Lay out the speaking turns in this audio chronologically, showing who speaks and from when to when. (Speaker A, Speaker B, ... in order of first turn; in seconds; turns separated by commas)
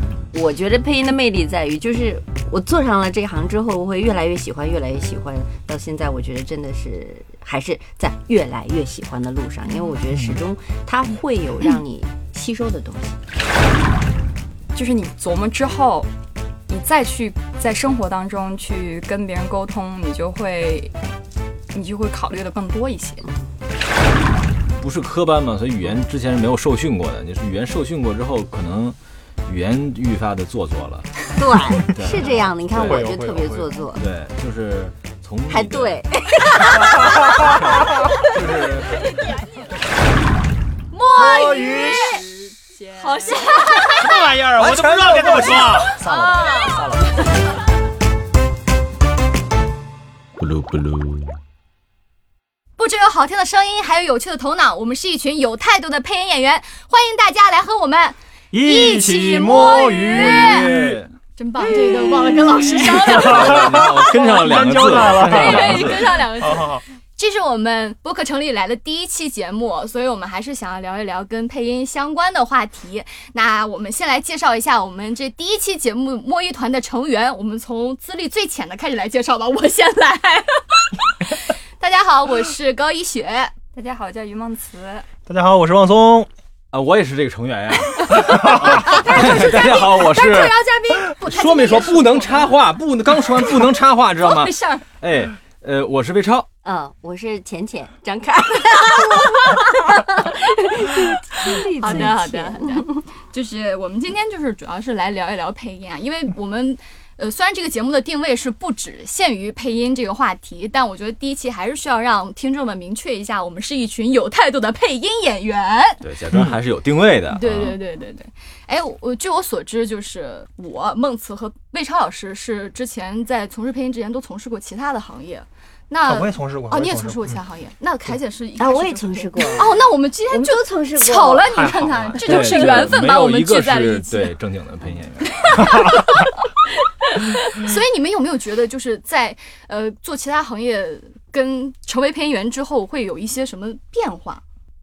Speaker A: 0.3-13.2, Speaker B: 14.7-16.1, Speaker B: 16.7-20.9, Speaker B: 21.7-23.2, Speaker A: 23.2-23.5, Speaker C: 24.8-33.1, Speaker A: 31.4-34.0, Speaker D: 32.7-33.8, Speaker C: 33.9-36.0, Speaker A: 35.5-37.6, Speaker C: 37.4-39.2, Speaker E: 38.9-39.6, Speaker E: 40.9-42.2, Speaker D: 41.1-42.0, Speaker B: 41.2-43.8, Speaker E: 42.9-44.3, Speaker D: 44.0-47.2, Speaker C: 44.2-46.3, Speaker E: 45.5-47.1, Speaker C: 50.4-51.3, Speaker E: 52.8-60.7, Speaker D: 58.5-61.0, Speaker C: 59.3-61.1, Speaker E: 61.4-83.5, Speaker D: 62.9-66.8, Speaker C: 63.0-66.3, Speaker B: 83.7-85.1, Speaker D: 85.2-86.3, Speaker C: 86.7-90.6, Speaker E: 88.5-92.5, Speaker D: 88.7-88.9, Speaker C: 91.2-96.5, Speaker E: 94.2-94.8, Speaker A: 96.6-102.9, Speaker E: 101.4-116.1, Speaker C: 116.0-117.8, Speaker D: 116.3-116.6, Speaker E: 117.3-134.4, Speaker D: 126.0-127.3, Speaker A: 128.6-131.7, Speaker D: 131.5-132.6, Speaker C: 132.2-135.9, Speaker E: 135.4-136.0, Speaker E: 137.1-144.4